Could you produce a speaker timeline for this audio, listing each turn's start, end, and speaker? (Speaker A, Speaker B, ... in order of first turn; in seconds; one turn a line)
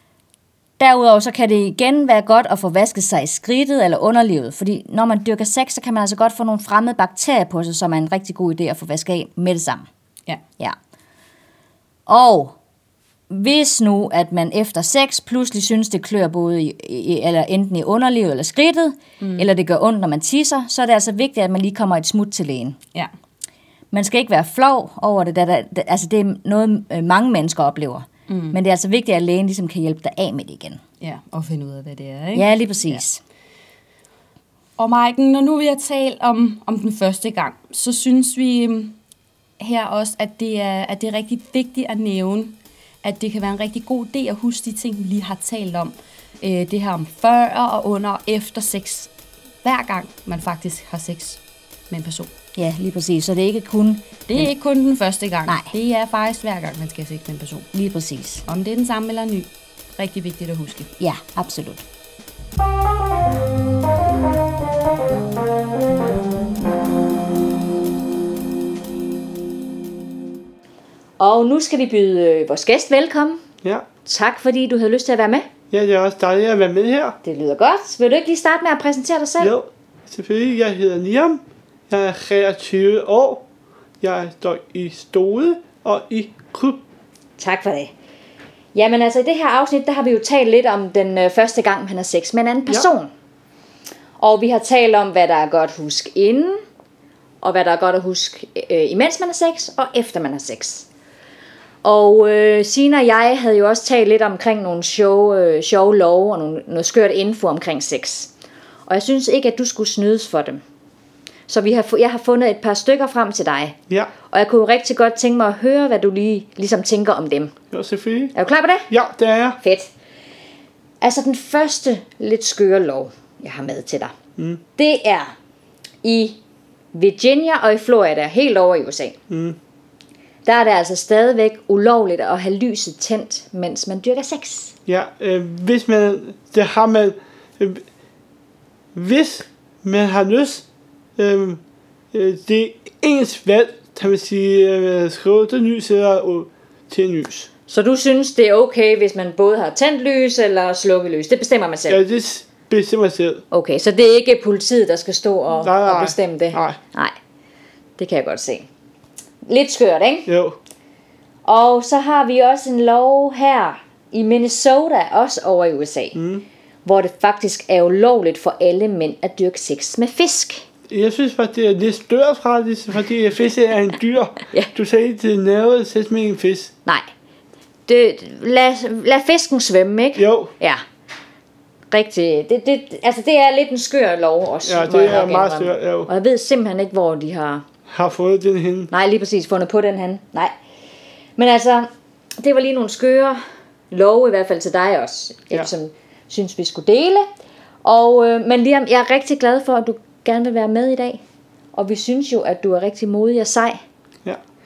Speaker A: 0.8-9.9
Speaker A: 12.1-12.6
Speaker A: 13.3-22.8
Speaker B: 19.2-19.4
Speaker A: 23.9-30.8
Speaker B: 28.3-28.6
Speaker B: 31.0-33.0
Speaker A: 32.3-33.2
Speaker B: 34.8-39.0
Speaker B: 39.6-49.1
Speaker B: 49.6-52.3
Speaker A: 52.5-54.5
Speaker B: 54.3-57.7
Speaker A: 55.5-55.7
Speaker A: 57.7-58.4
Speaker B: 58.5-60.9
Speaker A: 61.0-61.8
Speaker C: 71.2-73.4
Speaker C: 74.0-75.5
Speaker D: 75.7-77.2
Speaker C: 77.2-79.5
Speaker D: 79.4-83.5
Speaker D: 84.0-86.8
Speaker C: 87.4-87.9
Speaker C: 88.7-93.1
Speaker C: 94.2-96.6
Speaker C: 97.4-100.9
Speaker C: 101.8-108.3
Speaker C: 108.9-110.6
Speaker C: 111.5-117.5
Speaker D: 117.7-118.3
Speaker C: 118.3-118.9
Speaker D: 118.9-119.6
Speaker C: 119.6-119.9
Speaker C: 121.0-124.1
Speaker C: 124.8-125.3
Speaker C: 126.0-126.4
Speaker C: 126.9-129.2
Speaker D: 129.3-129.6
Speaker C: 130.4-134.7
Speaker D: 134.9-137.8
Speaker D: 138.9-140.6
Speaker D: 141.2-141.6
Speaker D: 142.1-147.5
Speaker C: 147.7-152.0
Speaker D: 151.9-153.4
Speaker C: 153.5-157.2
Speaker D: 155.6-156.8
Speaker C: 158.0-158.7
Speaker C: 159.4-160.3
Speaker D: 160.3-160.6
Speaker C: 161.4-166.2
Speaker D: 166.2-166.4
Speaker C: 166.8-170.7
Speaker D: 170.9-176.7
Speaker C: 177.9-180.8
Speaker D: 180.2-180.5
Speaker C: 181.9-187.6
Speaker D: 184.6-186.1
Speaker D: 187.9-188.9
Speaker C: 188.9-190.5
Speaker C: 191.4-197.3
Speaker C: 197.8-201.2
Speaker C: 201.7-203.8